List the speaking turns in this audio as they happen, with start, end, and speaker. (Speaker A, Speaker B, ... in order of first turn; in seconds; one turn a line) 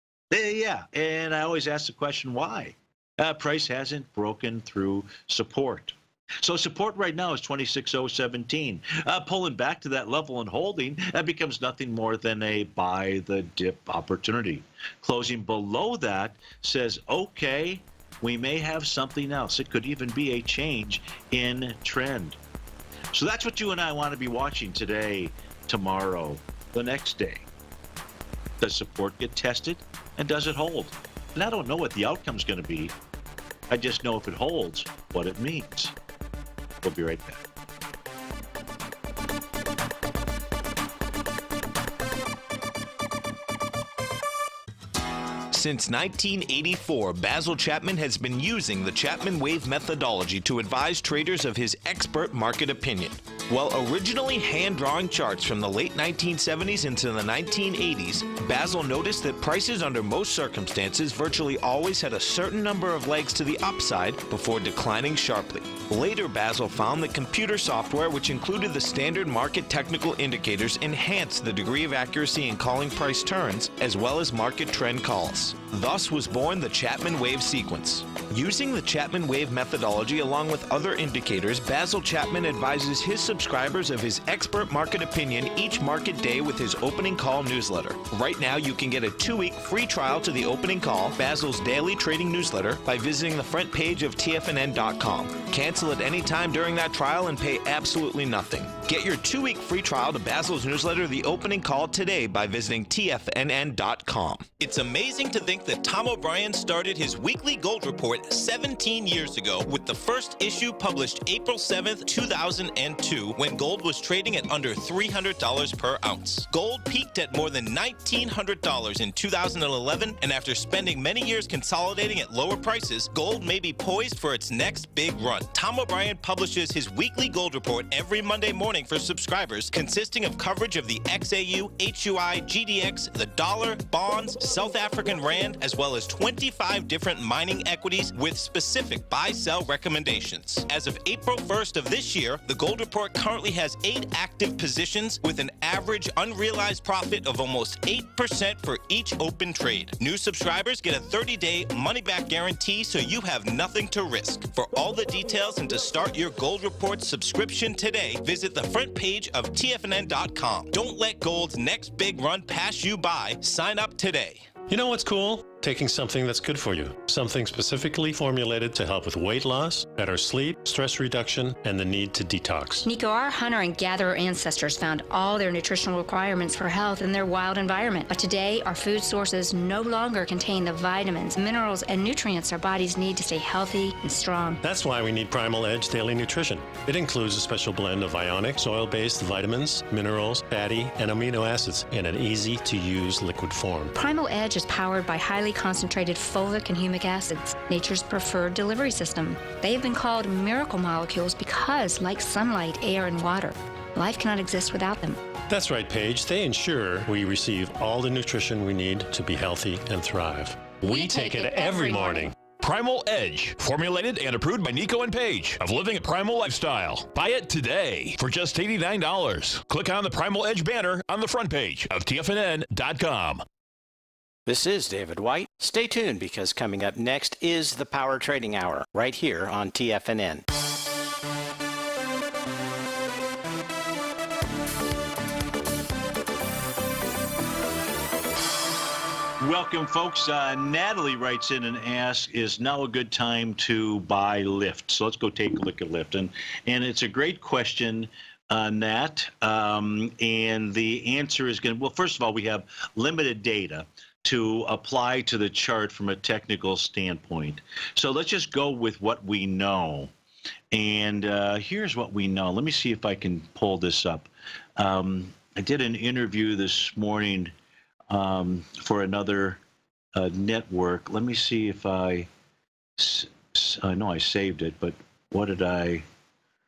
Speaker A: 0.3-22.4
Speaker A: 23.1-27.5
Speaker A: 28.6-32.9
Speaker A: 33.7-36.0
Speaker A: 36.8-37.4
Speaker B: 45.5-164.5
Speaker C: 164.7-172.9
Speaker D: 172.8-184.6
Speaker C: 184.6-193.9
Speaker D: 193.9-205.2
Speaker C: 205.5-212.3
Speaker D: 210.8-212.3
Speaker E: 212.6-223.4
Speaker F: 224.5-230.4
Speaker A: 239.4-260.1
Speaker A: 260.7-267.5
Speaker A: 268.1-269.6
Speaker A: 270.1-272.3
Speaker A: 273.0-276.1